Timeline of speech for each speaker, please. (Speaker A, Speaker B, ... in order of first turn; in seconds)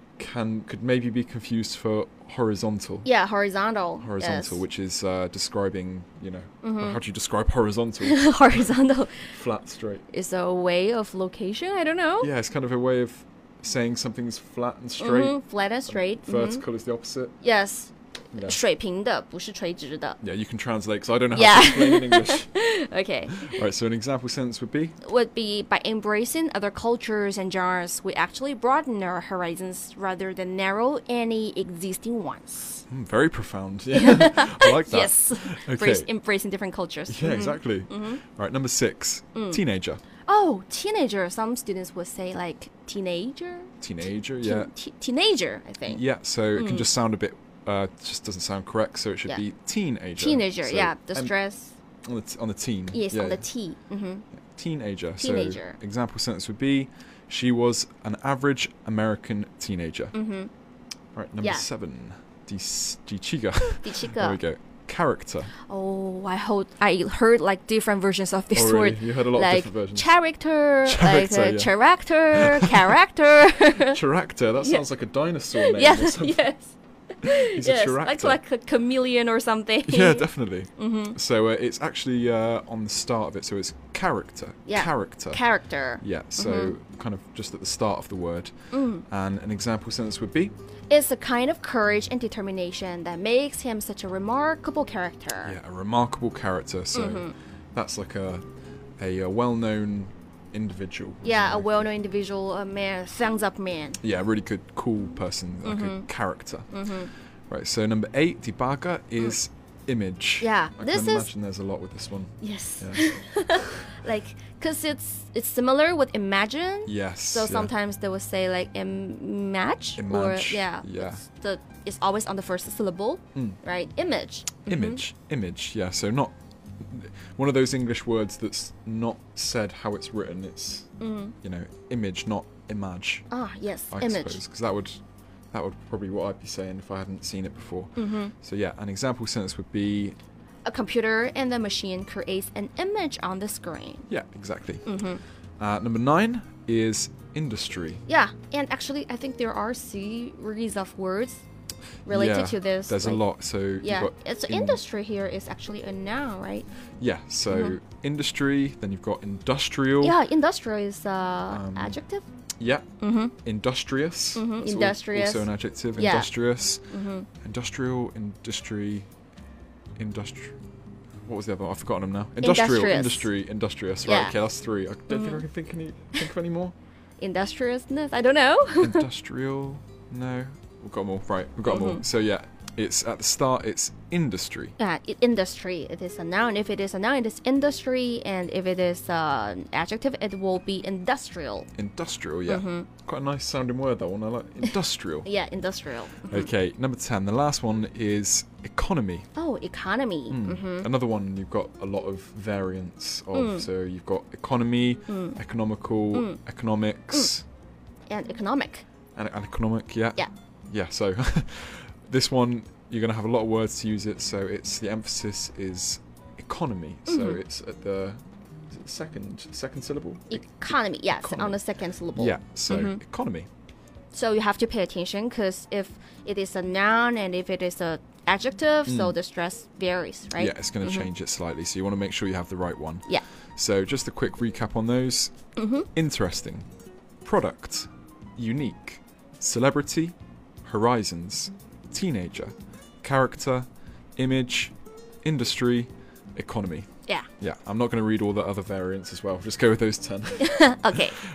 Speaker A: 0.2-3.1, 4.0-8.3, 9.3-10.0, 12.2-15.4, 15.9-17.3, 18.3-18.6, 20.2-22.5, 23.4-24.9, 32.9-36.1, 37.1-40.0, 43.8-44.7, 45.8-51.3, 52.0-53.5, 54.5-60.1, 61.1-65.5, 68.5-70.1, 70.8-71.7, 72.3-73.0, 73.8-76.5, 77.2-78.4, 79.8-85.4, 86.0-88.5, 89.1-90.5, 95.4-98.4, 99.0-101.8, 104.0-106.7, 107.5-113.7, 116.8-117.7, 120.0-121.2, 124.7-130.9, 131.4-133.3, 133.9-135.0, 135.5-140.2, 144.1-144.8, 145.6-148.0, 152.1-154.8, 157.0-160.2, 161.5-162.0, 162.6-162.8, 163.4-166.9, 167.4-169.1, 170.0-170.6, 171.2-176.7, 178.8-184.7, 191.7-195.3, 196.3-199.3, 200.3-207.4, 209.2-220.4, 221.2-221.6, 222.1-223.5, 228.8-229.2, 230.3-235.3, 235.9-236.7, 237.2-244.7, 245.2-246.9, 247.4-250.7
Speaker B: 3.0-4.6, 6.6-7.0, 8.0-9.3, 10.1-12.3, 15.0-16.6, 17.4-20.2, 21.3-23.6, 25.0-32.8, 33.9-38.2, 39.3-39.6, 40.2-43.7, 44.4-46.0, 46.5-46.9, 50.2-51.8, 52.9-54.2, 55.2-55.8, 60.1-60.5, 61.4-61.7, 63.8-64.4, 65.7-74.0, 74.5-74.9, 75.5-81.2, 84.7-86.7, 88.7-89.0, 90.9-95.5, 96.9-97.3, 101.2-104.0, 105.6-106.1, 106.7-107.1, 110.4-111.3, 112.4-125.0, 131.0-131.3, 133.3-134.4, 137.9-138.3, 140.6-144.1, 144.8-145.2, 148.1-151.4, 152.1-153.3, 153.8-156.7, 157.5-157.8, 160.0-162.2, 163.0-163.3, 164.3-166.3, 166.9-167.3, 172.4-173.3, 174.0-174.3, 175.1-175.4, 177.2-179.1, 181.7-182.0, 184.8-191.7, 192.5-192.9, 195.2-196.5, 199.3-200.9, 203.3-203.7, 205.1-205.4, 206.1-206.4, 208.1-208.8, 217.1-217.4, 220.3-223.0, 224.1-231.1, 235.6-235.9, 250.4-251.2